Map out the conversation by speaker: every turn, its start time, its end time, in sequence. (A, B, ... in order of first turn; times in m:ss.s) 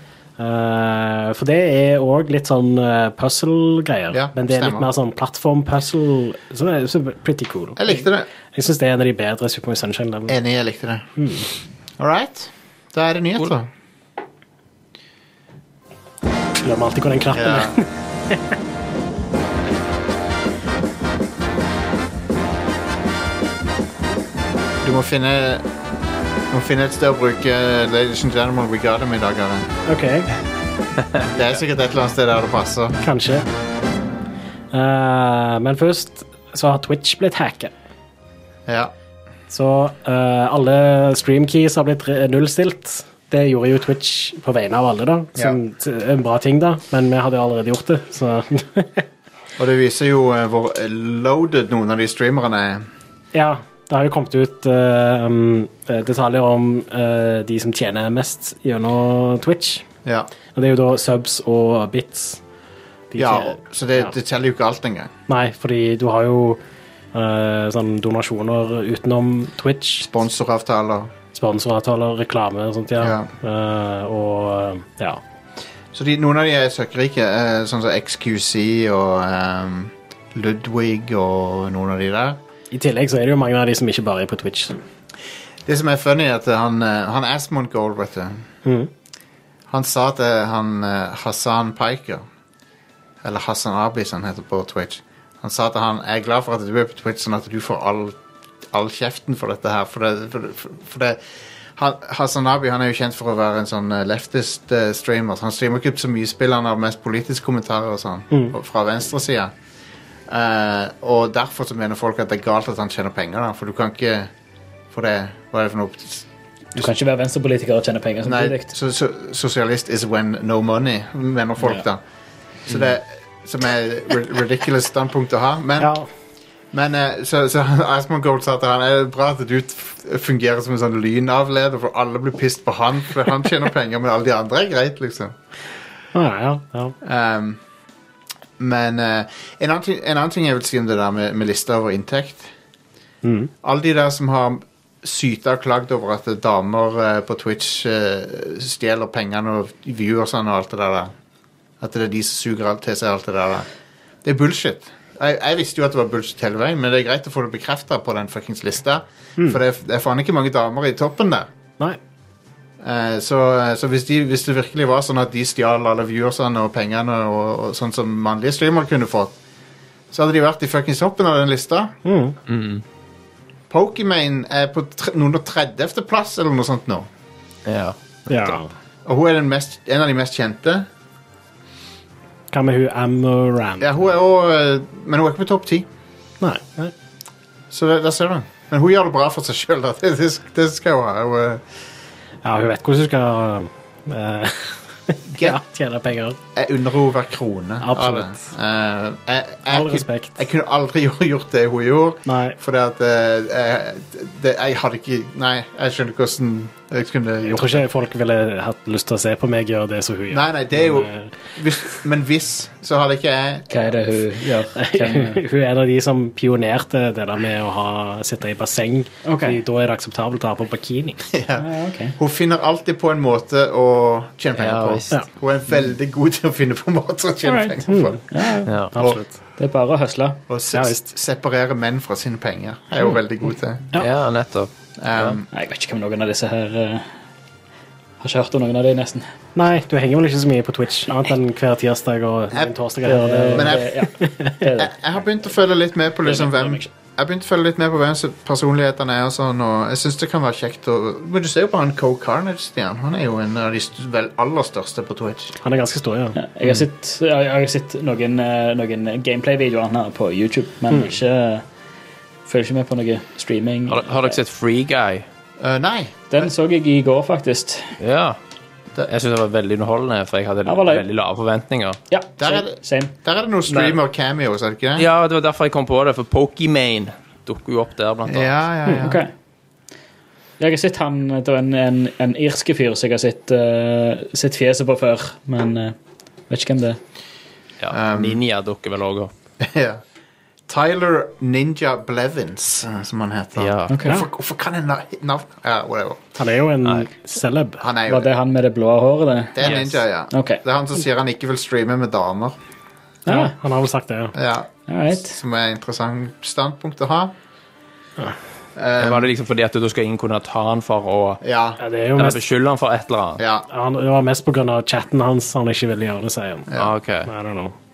0:00.4-0:10.4 A
0:04.1-0:04.9 B
0:07.8-0:08.3 B
0:10.3-0:11.1 B
0:11.2-0:11.5 A
0:12.0-0:13.7 B
0:16.6-0:18.4 A
0:17.3-0:17.8 B
0:24.8-0:25.7 B
0:26.5-0:29.7 B
0:29.9-0:30.3 A
0:31.3-0:33.0 B
0:33.0-0:33.5 A
0:34.7-0:37.7 A
0:38.7-0:38.9 B
0:39.5-0:49.0 A
0:49.6-0:52.9 B
0:53.3-0:59.8 A
1:00.6-1:02.4 A
1:03.1-1:04.1 A
1:03.2-1:05.1 B
1:05.3-1:06.6 A
1:07.1-1:10.1 A
1:10.0-1:11.1 B
1:11.3-1:15.2 A
1:13.0-1:13.3 B
1:15.9-1:22.4 B
1:22.7-1:24.8 A
1:25.7-1:28.5 B
1:28.6-1:28.9 A
1:29.7-1:32.2 B
1:33.2-1:38.2 B
1:38.7-1:41.2 B
1:41.8-1:49.5 B
1:50.3-1:54.3 B
1:54.9-1:56.9 B
1:56.8-1:58.7 C
1:58.2-2:02.0 B
2:02.7-2:06.0 B
2:05.8-2:06.1 A
2:06.7-2:15.4 B
2:16.1-2:17.0 A
2:17.0-2:17.6 B
2:18.6-2:22.5 B
2:23.2-2:23.5 A
2:23.6-2:31.1 B
2:31.8-2:33.7 B
2:34.2-2:41.5 B
2:42.8-2:49.4 B
2:50.1-2:52.0 B
2:52.0-2:52.4 A
2:52.5-2:52.8 D
2:53.7-2:57.1 B
2:57.7-2:58.0 D
2:58.3-2:58.7 A
2:59.0-3:00.9 B
3:02.5-3:04.1 A
3:03.8-3:05.9 B
3:06.4-3:06.9 A
3:07.7-3:11.6 B
3:12.4-3:16.4 A
3:15.3-3:15.6 B
3:16.6-3:27.8 B
3:17.8-3:18.4 A
3:19.7-3:20.4 A
3:22.3-3:22.6 A
3:27.5-3:31.3 A
3:30.3-3:33.8 B
3:33.7-3:35.4 C
3:34.8-3:41.2 A
3:39.2-3:39.6 C
3:41.3-3:48.4 B
3:41.6-3:42.2 C
3:44.6-3:45.2 D
3:47.4-3:47.8 C
3:47.9-3:48.2 A
3:48.3-3:48.7 C
3:48.7-3:48.9 D
3:48.7-3:49.4 A
3:48.9-3:49.2 B
3:49.6-3:50.4 C
3:50.5-3:53.9 B
3:50.7-3:51.0 A
3:53.9-3:55.4 D
3:55.0-3:55.5 B
3:55.5-3:57.1 C
3:58.2-3:59.3 C
3:59.6-4:04.6 A
4:03.0-4:04.9 C
4:03.5-4:04.0 B
4:04.8-4:15.6 B
4:06.2-4:06.9 C
4:15.6-4:16.4 A
4:16.4-4:21.6 C
4:22.5-4:24.4 C
4:23.9-4:25.2 D
4:25.6-4:26.5 B
4:26.3-4:27.9 C
4:28.0-4:28.4 D
4:29.1-4:32.0 D
4:30.7-4:31.0 C
4:32.1-4:33.1 C
4:32.4-4:35.1 B
4:33.7-4:34.0 C
4:35.0-4:38.6 D
4:38.3-4:39.2 B
4:38.9-4:39.3 C
4:40.6-4:46.0 C
4:46.5-4:47.0 C
4:47.8-4:49.3 D
4:47.9-4:48.4 B
4:49.6-4:50.0 B
4:50.7-4:56.2 B
4:53.6-4:54.0 D
4:53.9-4:54.2 C
4:56.4-4:57.8 A
4:57.8-4:58.3 B
4:58.1-5:00.6 C
4:59.6-5:02.6 B
5:03.3-5:03.5 C
5:03.3-5:04.3 A
5:04.3-5:07.3 B
5:04.9-5:05.3 C
5:08.8-5:09.3 B
5:09.0-5:11.4 D
5:11.4-5:11.8 B
5:11.8-5:12.4 A
5:12.2-5:13.4 D
5:13.4-5:13.7 B
5:13.7-5:16.7 A
5:16.8-5:17.3 D
5:17.3-5:17.7 A